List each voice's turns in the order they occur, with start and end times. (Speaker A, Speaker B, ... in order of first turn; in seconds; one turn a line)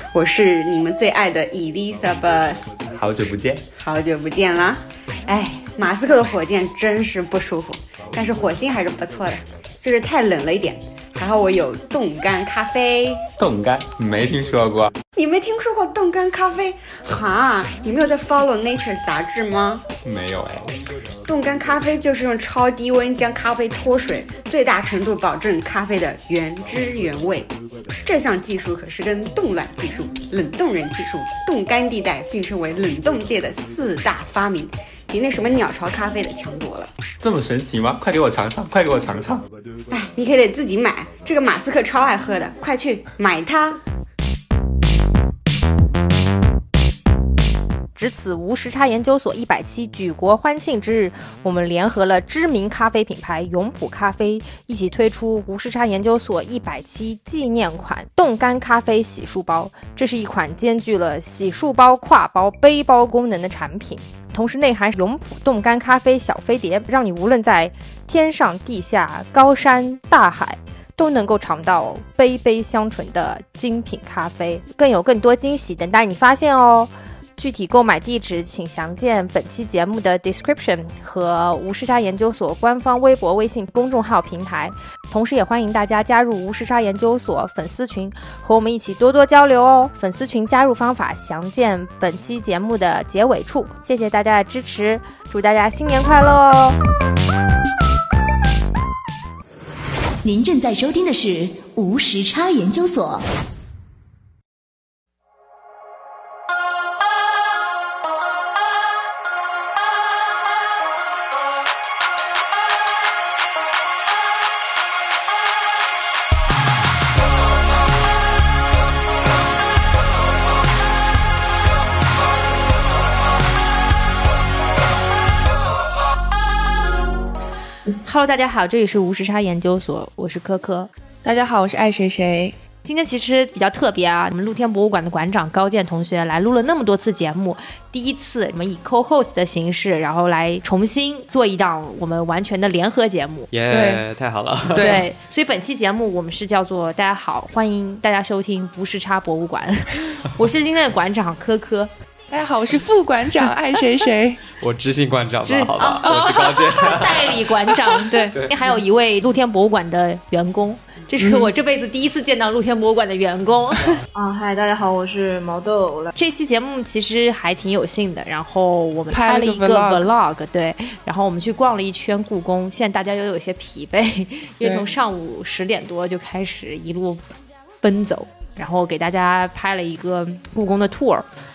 Speaker A: 0.1-2.6
Speaker B: 3.0-3.7
Speaker A: 3.8-13.2
Speaker B: 13.4-14.9
Speaker A: 15.1-19.9
Speaker B: 20.0-20.7
Speaker A: 21.3-27.5
Speaker A: 28.0-36.9
Speaker B: 37.2-39.5
Speaker A: 39.9-43.8
Speaker C: 48.0-96.8
Speaker D: 100.2-103.2
Speaker C: 128.0-130.9
Speaker E: 131.2-132.6
Speaker C: 132.8-143.5
Speaker F: 143.5-145.0
Speaker E: 143.7-144.0
Speaker E: 144.7-145.1
Speaker C: 144.8-151.9
Speaker E: 152.3-154.4
Speaker F: 154.6-158.6
Speaker C: 155.4-163.8
Speaker E: 161.2-161.5
Speaker G: 164.1-166.1
Speaker C: 166.2-177.2
Speaker E: 169.1-170.1
Speaker E: 174.6-174.9
Speaker C: 177.8-181.3